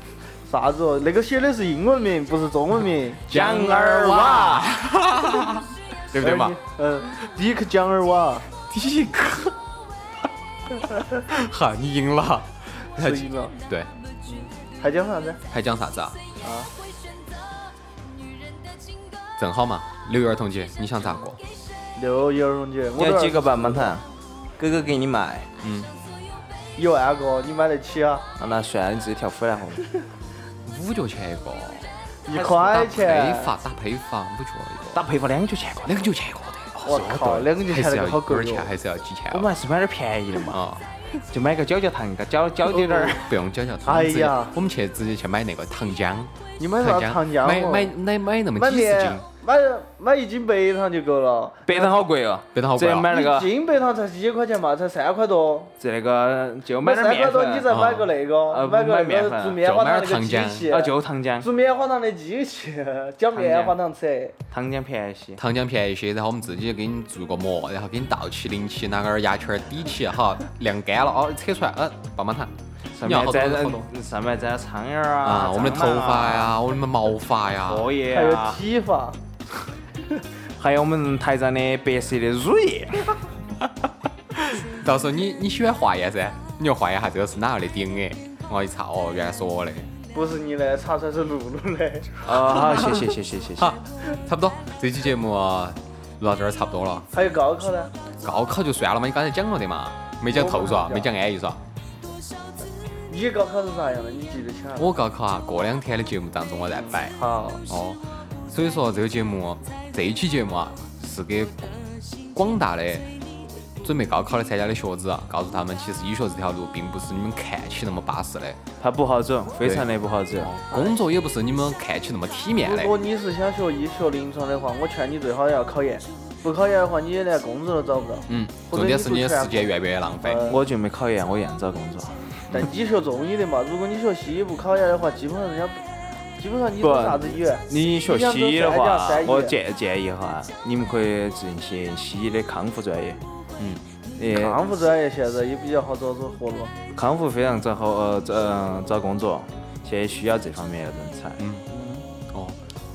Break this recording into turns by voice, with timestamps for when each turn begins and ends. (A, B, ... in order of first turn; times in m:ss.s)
0:00.5-0:04.6 A
0:03.3-0:04.8 B
0:03.3-0:06.6 C
0:06.2-0:08.5 A
0:08.7-0:09.6 C
0:10.8-0:13.9 C
0:13.0-0:13.5 A
0:14.3-0:15.4 A
0:15.5-0:16.2 C
0:16.4-0:16.7 A
0:19.4-0:21.4 C
0:22.0-0:24.0 A
0:23.0-0:24.0 B
0:24.6-0:25.5 B
0:25.6-0:25.9 C
0:26.8-0:28.3 A
0:28.4-0:29.9 B
0:30.6-0:35.0 C
0:32.3-0:33.5 A
0:34.9-0:36.1 B
0:35.8-0:37.0 C
0:36.8-0:38.7 A
0:36.9-0:37.5 B
0:37.5-0:39.5 C
0:39.3-0:40.6 B
0:40.5-0:40.9 C
0:41.3-0:43.4 B
0:42.7-0:43.2 A
0:42.9-0:49.2 C
0:43.8-0:44.6 A
0:46.6-0:47.9 A
0:48.6-0:52.0 A
0:51.7-0:53.5 B
0:52.5-0:53.1 C
0:53.0-0:55.7 A
0:55.8-0:57.7 B
0:56.8-1:04.4 A
0:57.7-0:58.1 C
0:58.5-0:59.6 B
0:59.6-1:00.7 C
1:00.7-1:01.5 B
1:03.3-1:03.8 B
1:04.5-1:05.4 B
1:05.4-1:13.9 C
1:12.9-1:16.6 B
1:15.2-1:17.9 C
1:17.7-1:18.6 B
1:18.1-1:19.2 A
1:20.6-1:23.2 B
1:24.3-1:29.9 C
1:30.1-1:32.9 A
1:32.2-1:33.7 B
1:33.6-1:37.1 C
1:37.1-1:37.9 A
1:38.2-1:41.6 C
1:40.3-1:41.1 A
1:43.1-1:44.9 A
1:44.8-1:47.2 C
1:46.9-1:47.6 A
1:47.7-1:53.1 C
1:53.8-1:58.6 C
1:58.8-2:00.5 B
1:59.6-2:02.9 C
2:00.7-2:01.0 A
2:02.6-2:09.7 A
2:08.3-2:10.4 C
2:10.2-2:10.6 A
2:10.5-2:12.5 B
2:12.5-2:15.8 A
2:16.4-2:19.5 A
2:16.8-2:23.2 B
2:23.6-2:23.8 C
2:24.2-2:24.6 B
2:24.3-2:26.7 A
2:26.9-2:31.4 B
2:31.4-2:31.7 C
2:31.7-2:32.0 A
2:32.3-2:32.6 C